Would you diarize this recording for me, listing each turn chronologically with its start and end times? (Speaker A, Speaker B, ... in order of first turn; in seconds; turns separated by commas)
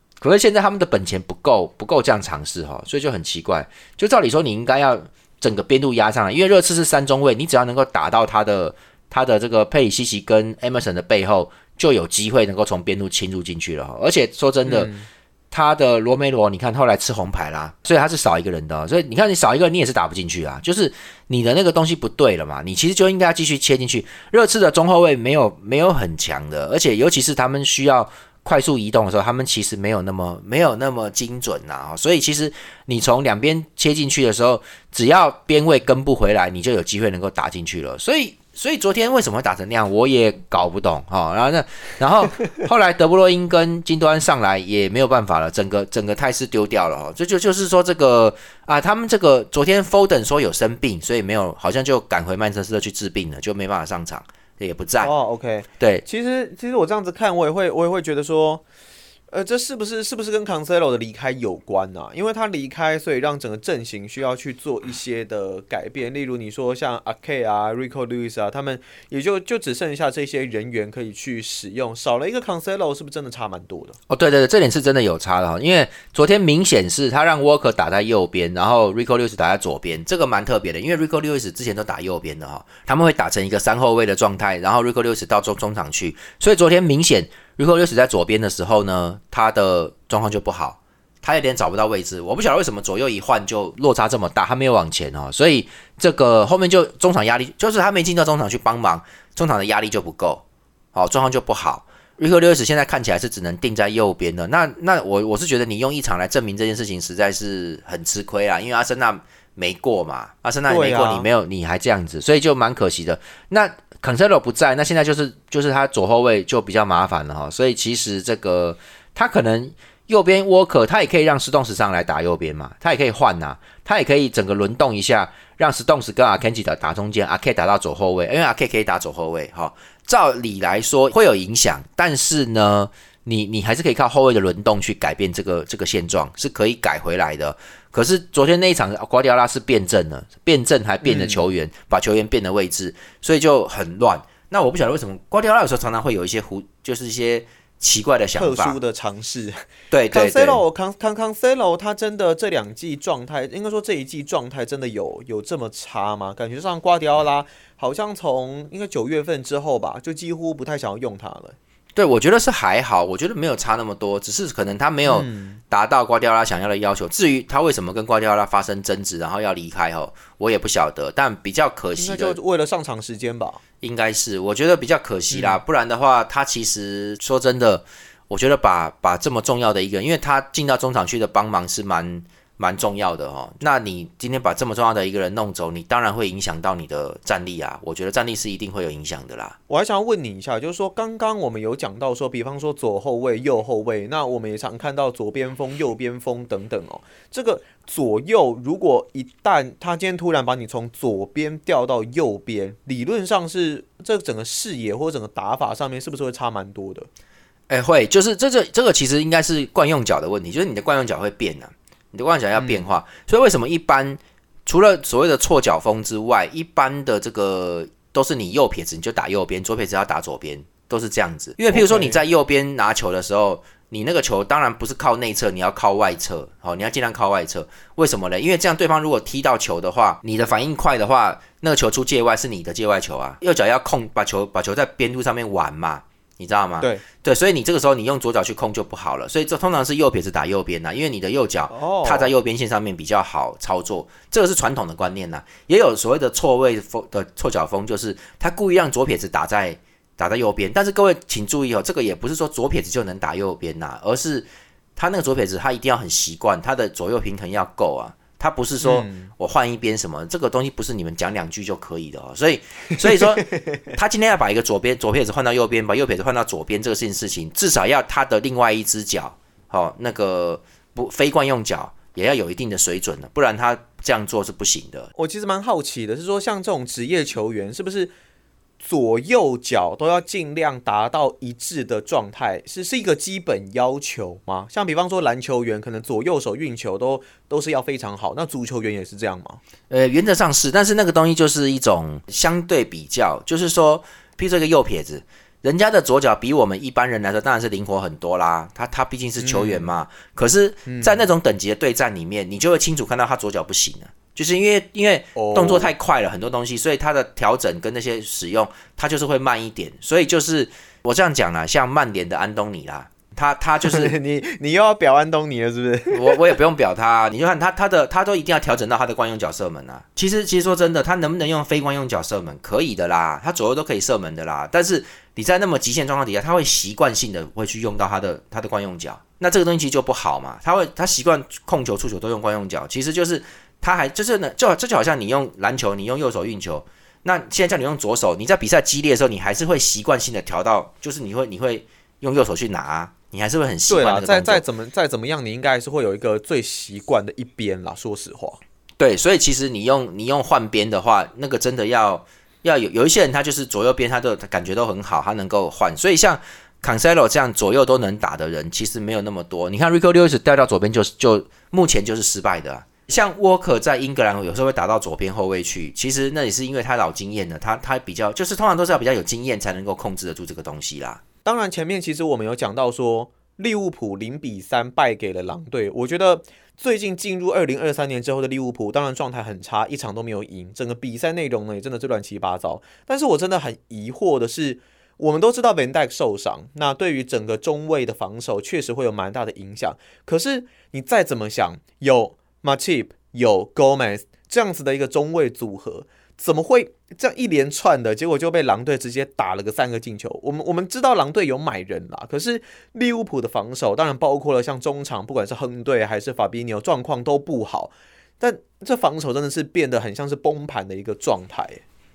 Speaker A: 0.2-14.9, Speaker B: 14.6-15.1, Speaker A: 15.5-55.1, Speaker B: 55.0-58.6, Speaker A: 55.8-56.0, Speaker B: 59.3-74.0, Speaker A: 74.1-100.4, Speaker A: 100.9-148.8, Speaker B: 110.7-111.3, Speaker B: 141.0-141.4, Speaker B: 148.3-161.6, Speaker A: 149.9-150.6, Speaker A: 161.9-172.4, Speaker B: 165.1-165.6, Speaker B: 171.9-173.6, Speaker A: 173.8-189.6, Speaker B: 175.3-175.6, Speaker B: 189.7-207.1, Speaker A: 207.7-275.1, Speaker B: 212.5-212.9, Speaker B: 221.7-222.2, Speaker B: 241.7-242.3, Speaker B: 258.8-259.3, Speaker B: 263.1-263.8, Speaker B: 275.1-278.1, Speaker B: 278.8-289.6, Speaker A: 289.9-314.1, Speaker B: 299.4-299.9, Speaker B: 300.9-301.2, Speaker B: 305.3-305.9, Speaker B: 313.8-316.4, Speaker A: 316.1-344.6, Speaker B: 343.9-348.6, Speaker A: 349.0-371.2, Speaker B: 371.4-411.8